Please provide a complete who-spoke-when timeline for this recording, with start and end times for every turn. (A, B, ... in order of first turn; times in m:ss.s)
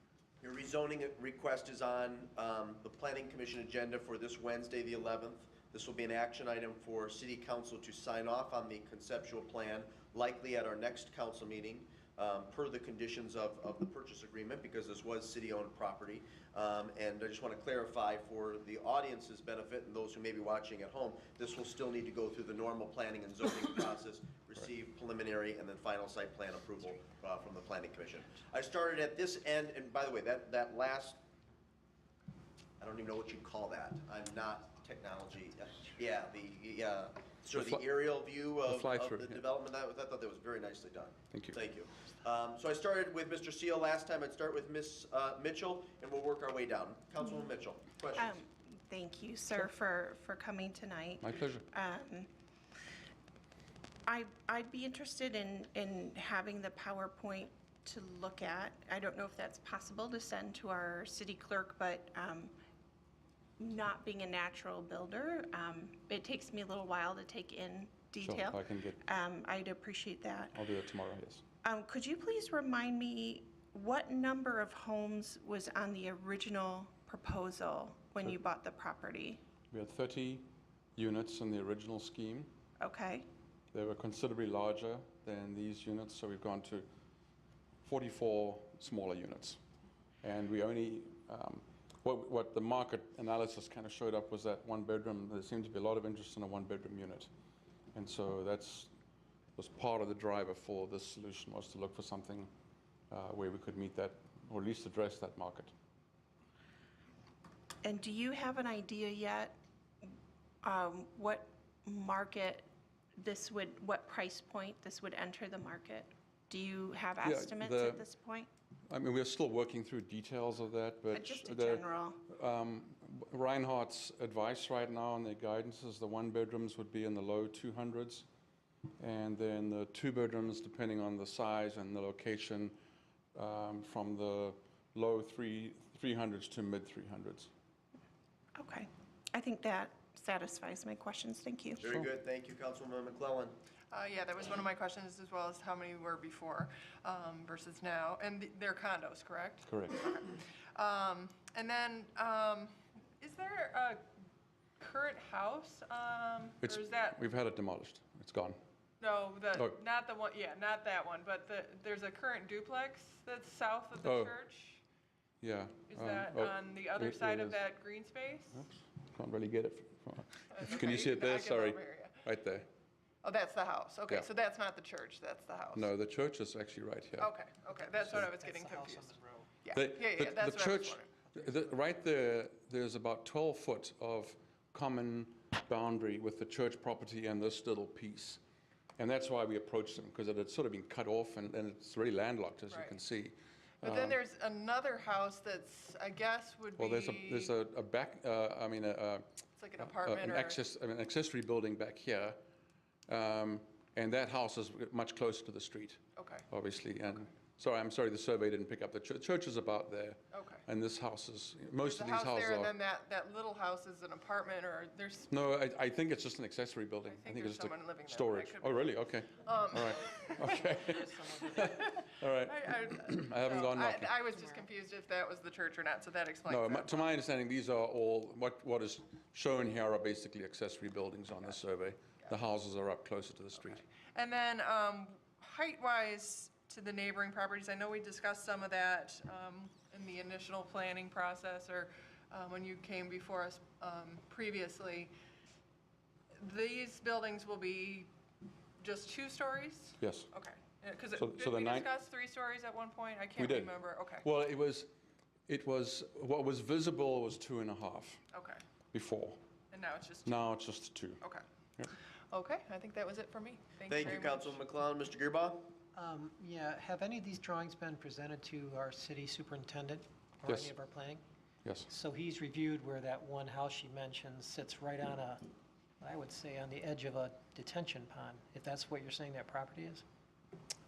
0:00.4-0:31.2 A
0:32.8-0:48.4 A
0:37.5-0:37.8 B
0:38.6-0:39.4 B
0:41.3-0:41.6 B
0:48.2-0:52.3 C
0:51.2-0:51.7 B
0:54.1-1:02.5 C
1:03.6-1:10.6 C
1:08.2-1:09.0 B
1:10.5-1:11.4 B
1:11.6-1:19.4 C
1:19.7-1:22.5 B
1:22.8-1:23.3 C
1:23.7-1:26.9 B
1:27.8-1:29.6 B
1:30.2-1:37.3 B
1:37.9-1:38.9 B
1:39.6-1:42.5 B
1:43.1-1:45.7 B
1:47.8-1:49.6 C
1:50.6-1:52.7 C
1:53.2-1:58.5 C
1:57.2-1:58.0 B
1:58.9-2:08.3 B
2:01.1-2:02.2 C
2:09.0-2:12.8 B
2:13.4-2:17.5 B
2:18.6-2:21.8 C
2:21.8-2:23.6 A
2:23.9-2:34.0 D
2:29.6-2:30.0 B
2:34.8-2:37.2 D
2:36.6-2:38.6 B
2:39.0-2:44.8 D
2:44.0-2:44.3 B
2:45.4-2:47.6 B
2:45.9-2:48.6 D
2:48.6-2:52.7 B
2:50.5-2:52.2 D
2:53.2-2:55.9 D
2:55.8-2:57.3 B
2:57.2-3:01.1 D
2:57.8-2:59.5 E
2:59.7-3:08.4 B
3:09.0-3:14.2 B
3:12.7-3:13.0 D
3:13.8-3:17.5 D
3:16.8-3:19.3 B
3:19.6-3:20.6 D
3:19.8-3:22.4 B
3:23.1-3:32.8 B
3:26.2-3:26.4 D
3:30.3-3:30.6 D
3:31.8-3:35.4 D
3:35.3-3:44.2 B
3:37.0-3:47.1 D
3:46.5-3:53.8 B
3:53.8-4:05.1 D
4:06.4-4:08.1 D
4:08.8-4:14.3 D
4:10.0-4:10.3 B
4:11.2-4:11.9 B
4:13.4-4:14.9 B
4:15.5-4:18.2 B
4:18.3-4:18.6 D
4:18.9-4:19.4 B
4:19.7-4:20.3 D
4:20.3-4:21.2 B
4:22.3-4:24.5 D
4:23.9-4:25.7 A
4:26.0-4:31.2 E
4:30.5-4:30.7 B
4:31.9-4:35.5 E
4:36.0-4:40.0 E